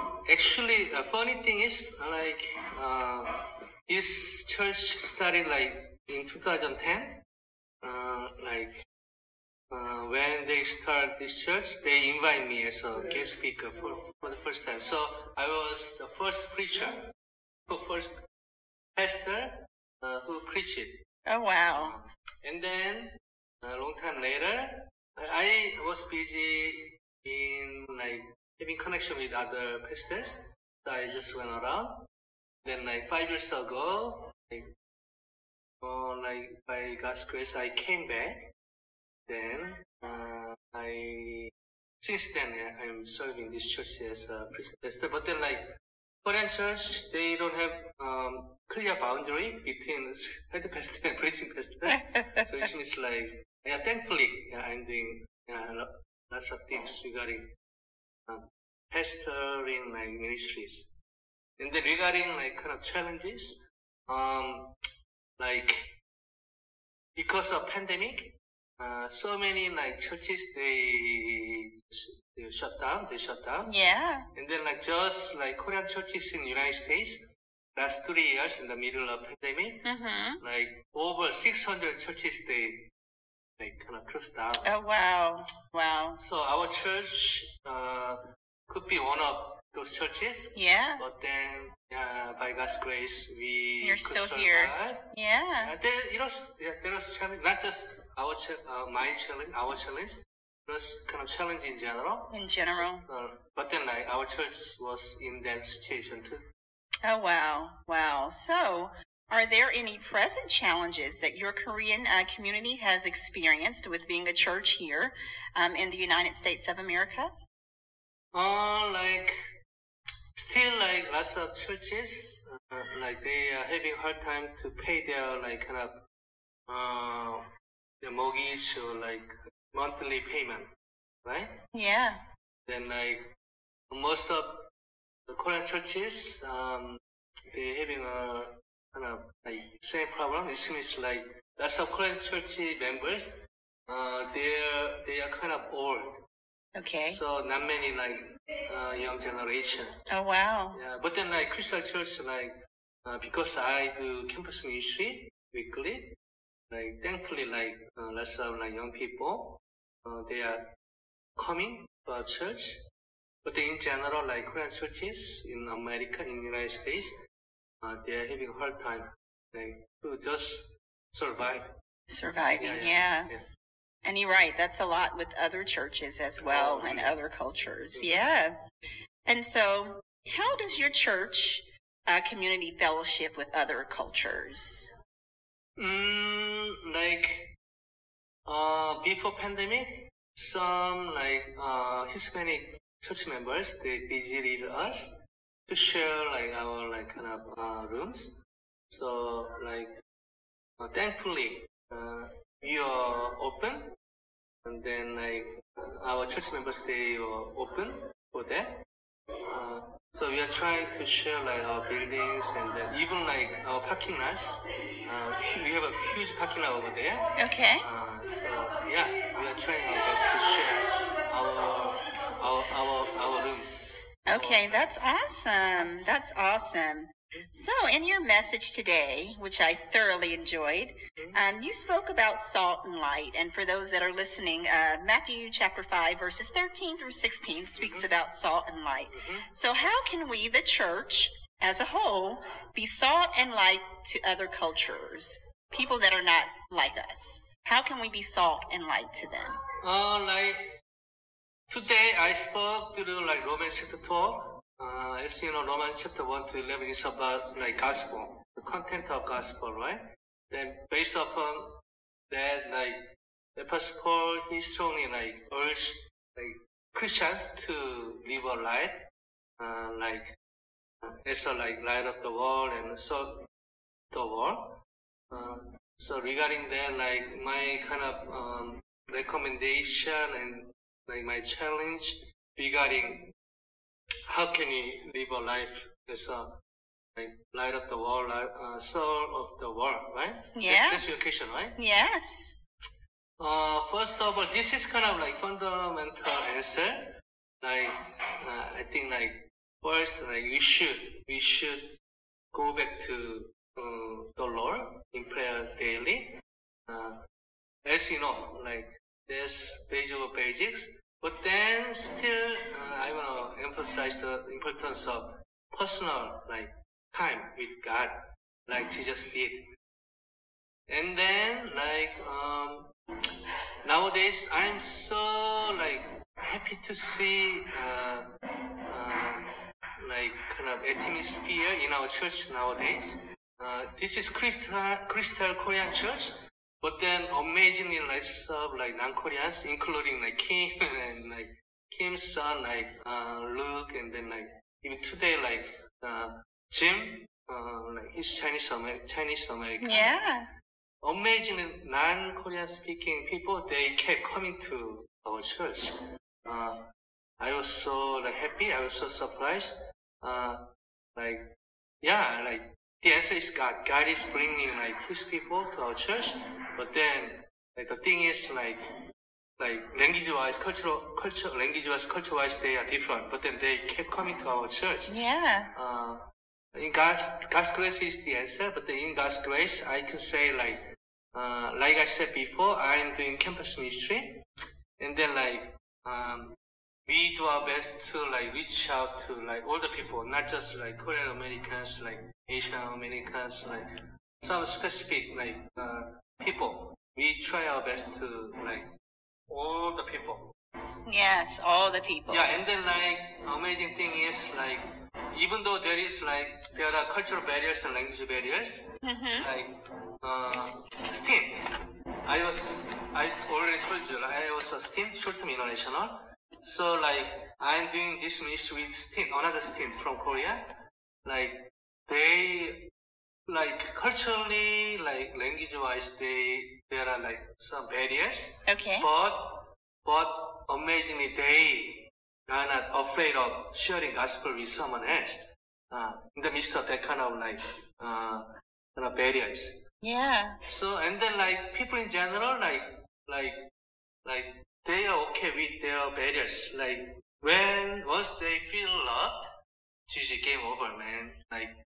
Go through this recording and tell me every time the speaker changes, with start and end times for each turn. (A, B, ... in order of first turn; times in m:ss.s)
0:00.3-0:03.4 A
0:03.9-0:07.2 A
0:07.8-0:08.8 A
0:09.7-0:17.1 A
0:17.7-0:18.2 A
0:19.0-0:21.0 A
0:21.3-0:22.0 B
0:21.7-0:32.0 A
0:32.6-0:34.7 A
0:35.8-0:38.5 A
0:39.3-0:45.7 A
0:46.2-0:57.5 A
0:51.9-0:52.7 B
0:58.3-1:00.9 A
1:01.6-1:04.7 A
1:05.4-1:05.9 A
1:07.2-1:13.7 A
1:13.7-1:14.3 B
1:14.3-1:19.8 A
1:19.8-1:20.4 B
1:20.4-1:22.9 A
1:23.6-1:24.7 A
1:24.6-1:26.2 B
1:26.2-1:35.0 A
1:30.6-1:31.0 B
1:33.8-1:35.7 B
1:35.6-1:46.5 A
1:42.3-1:43.0 B
1:47.0-1:57.3 B
1:58.3-1:59.4 A
2:00.4-2:06.0 A
2:06.7-2:07.5 A
2:08.0-2:10.7 A
2:11.2-2:11.6 A
2:11.7-2:12.2 B
2:12.7-2:13.3 A
2:13.9-2:14.7 A
2:15.3-2:26.2 A
2:26.8-2:27.2 B
2:27.0-2:30.0 A
2:30.1-2:30.8 B
2:30.7-2:32.5 A
2:33.0-2:36.2 A
2:36.7-2:40.7 A
2:41.4-2:42.8 A
2:43.4-2:47.1 A
2:47.8-2:51.7 A
2:52.1-2:53.3 B
2:52.6-2:53.4 A
2:54.0-2:58.6 B
2:56.4-2:57.2 A
2:57.9-2:58.2 A
2:59.3-3:04.9 B
3:05.8-3:07.5 A
3:08.4-3:18.4 A
3:18.9-3:19.9 A
3:20.8-3:24.0 A
3:24.6-3:28.8 A
3:29.4-3:37.2 A
3:37.4-3:37.8 B
3:37.8-3:44.9 A
3:44.3-4:09.6 B
3:45.6-3:45.9 A
3:51.2-3:51.4 A
3:57.8-3:58.1 A
3:59.1-3:59.5 A
4:09.8-4:10.7 A
4:11.7-4:29.0 A
4:29.6-4:30.4 A
4:31.0-4:33.5 A
4:34.1-4:34.7 A
4:35.3-4:43.3 A
4:44.3-4:46.6 A
4:47.2-4:51.8 A
4:50.6-4:51.0 B
4:51.8-4:52.6 B
4:53.4-5:01.9 A
5:02.5-5:07.2 A
5:07.8-5:19.7 A
5:20.9-5:22.9 A
5:23.8-5:28.3 A
5:28.9-5:50.2 A
5:49.8-5:50.5 B
5:51.0-5:56.9 A
5:57.4-6:00.6 A
6:01.2-6:08.9 A
6:09.6-6:15.1 A
6:15.1-6:15.7 B
6:15.8-6:20.8 A
6:21.3-6:24.4 A
6:25.0-6:26.6 A
6:27.1-6:33.9 A
6:34.4-6:38.9 A
6:39.5-6:40.5 A
6:41.1-6:42.5 B
6:42.3-6:48.9 A
6:49.0-6:49.5 B
6:49.4-6:51.6 A
6:52.2-7:00.6 A
7:01.2-7:02.8 A
7:03.5-7:19.8 A
7:08.7-7:09.1 B
7:20.0-7:20.6 B
7:20.7-7:23.6 A
7:24.2-7:29.4 A
7:30.1-7:31.8 A